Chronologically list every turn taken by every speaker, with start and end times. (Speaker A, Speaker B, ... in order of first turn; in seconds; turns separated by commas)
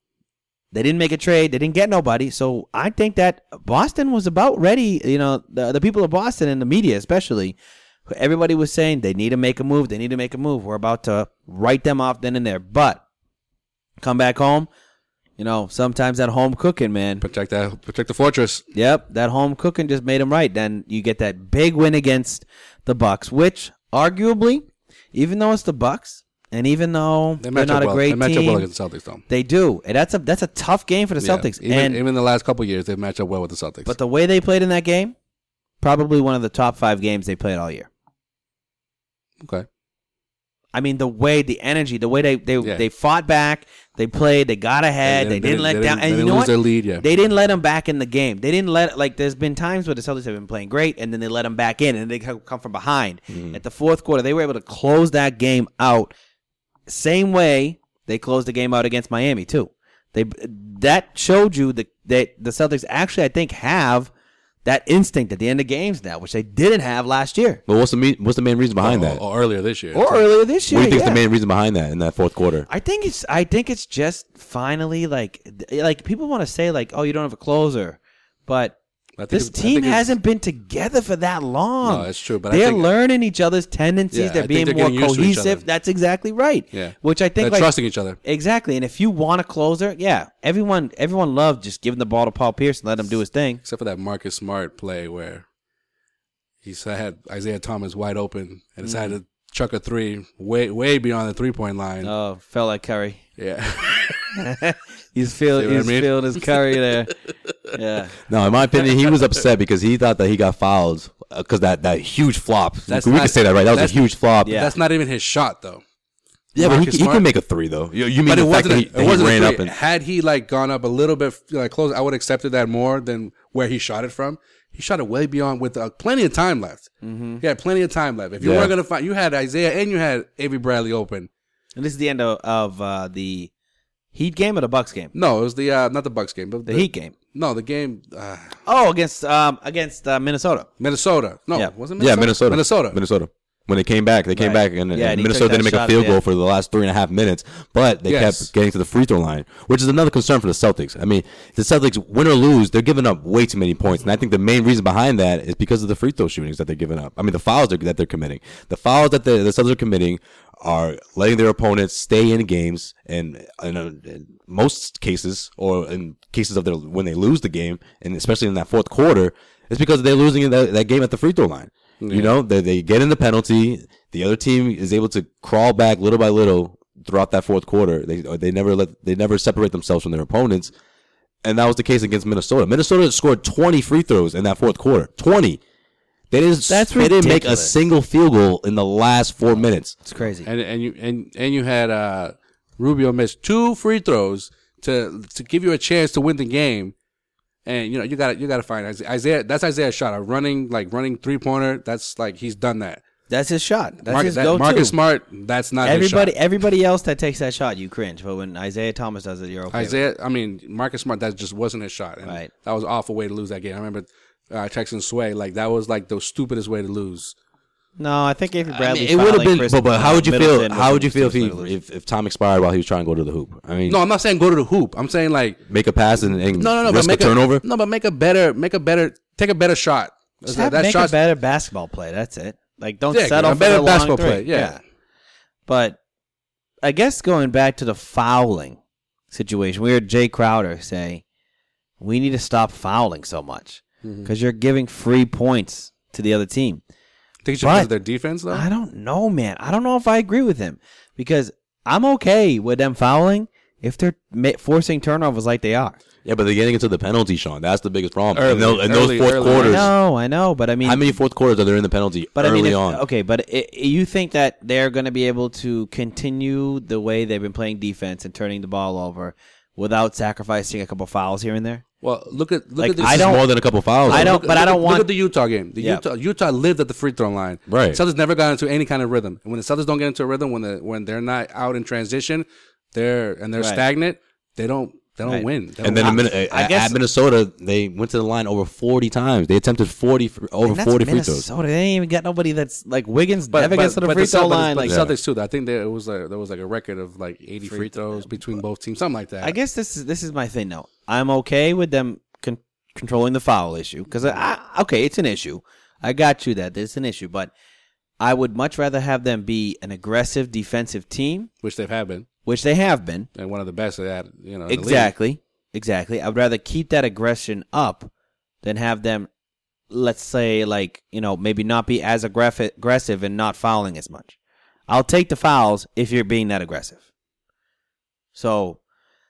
Speaker A: 0.7-13.0, Speaker A: 14.0-14.7, Speaker A: 15.4-17.2, Speaker B: 17.2-18.6, Speaker A: 18.7-28.7, Speaker B: 27.4-29.2, Speaker A: 29.3-32.0, Speaker B: 31.2-33.9, Speaker A: 33.9-35.1, Speaker A: 35.8-37.9, Speaker A: 40.7-56.1, Speaker B: 45.0-47.0, Speaker C: 53.3-53.6, Speaker A: 56.9-64.1, Speaker A: 64.6-67.6, Speaker C: 67.7-69.2, Speaker B: 68.8-70.2, Speaker A: 69.9-71.2, Speaker C: 70.7-72.7, Speaker A: 72.7-78.8, Speaker B: 79.2-80.1, Speaker A: 79.3-87.7, Speaker B: 81.8-82.9, Speaker B: 84.1-85.6, Speaker B: 86.7-88.2, Speaker A: 88.2-93.6, Speaker B: 93.6-95.4, Speaker B: 96.6-102.1, Speaker A: 98.8-99.1, Speaker A: 102.0-103.2, Speaker B: 103.4-104.2, Speaker A: 104.3-107.1, Speaker B: 105.5-106.8, Speaker A: 107.7-108.1, Speaker C: 108.3-114.6, Speaker B: 112.9-115.8, Speaker A: 114.4-114.7, Speaker C: 116.5-119.7, Speaker B: 116.6-117.2, Speaker B: 118.2-131.3, Speaker A: 127.0-127.4, Speaker C: 128.4-128.7, Speaker A: 131.8-133.5, Speaker A: 134.1-135.1, Speaker B: 135.1-138.6, Speaker A: 136.7-137.1, Speaker A: 138.7-140.7, Speaker B: 140.8-143.0, Speaker C: 142.0-180.7, Speaker A: 144.3-146.2, Speaker B: 148.1-148.5, Speaker B: 172.0-172.3, Speaker C: 181.4-185.6, Speaker C: 186.3-189.9, Speaker A: 186.7-187.8, Speaker A: 190.0-190.5, Speaker B: 190.4-196.9, Speaker B: 197.7-203.0, Speaker A: 203.3-204.9, Speaker B: 204.1-206.3, Speaker A: 205.8-210.0, Speaker B: 209.7-217.3, Speaker A: 218.0-221.7, Speaker C: 218.7-224.0, Speaker B: 223.9-225.6, Speaker C: 225.7-227.6, Speaker B: 226.3-231.1, Speaker A: 230.5-234.8, Speaker B: 233.1-234.8, Speaker A: 235.7-236.0, Speaker A: 236.8-238.8, Speaker A: 239.3-241.2, Speaker A: 242.0-246.8, Speaker B: 244.0-244.3, Speaker B: 247.4-248.7, Speaker A: 247.6-247.9, Speaker A: 248.5-256.0, Speaker C: 256.2-259.9, Speaker B: 258.3-259.9, Speaker A: 259.4-261.1, Speaker C: 260.8-263.0, Speaker A: 262.4-271.8, Speaker B: 272.0-273.4, Speaker A: 272.8-273.5, Speaker C: 273.0-274.4, Speaker A: 274.1-275.1, Speaker B: 274.1-286.2, Speaker C: 277.7-278.0, Speaker C: 285.8-291.4, Speaker A: 286.0-287.0, Speaker A: 290.6-295.0, Speaker B: 293.5-299.6, Speaker C: 294.8-295.1, Speaker A: 297.6-298.3, Speaker A: 299.4-307.5, Speaker A: 308.2-311.5, Speaker B: 311.6-312.3, Speaker A: 312.4-313.3, Speaker B: 313.4-315.1, Speaker A: 314.7-318.1, Speaker A: 318.6-319.3, Speaker A: 319.9-324.4, Speaker A: 324.9-327.0, Speaker A: 328.3-328.8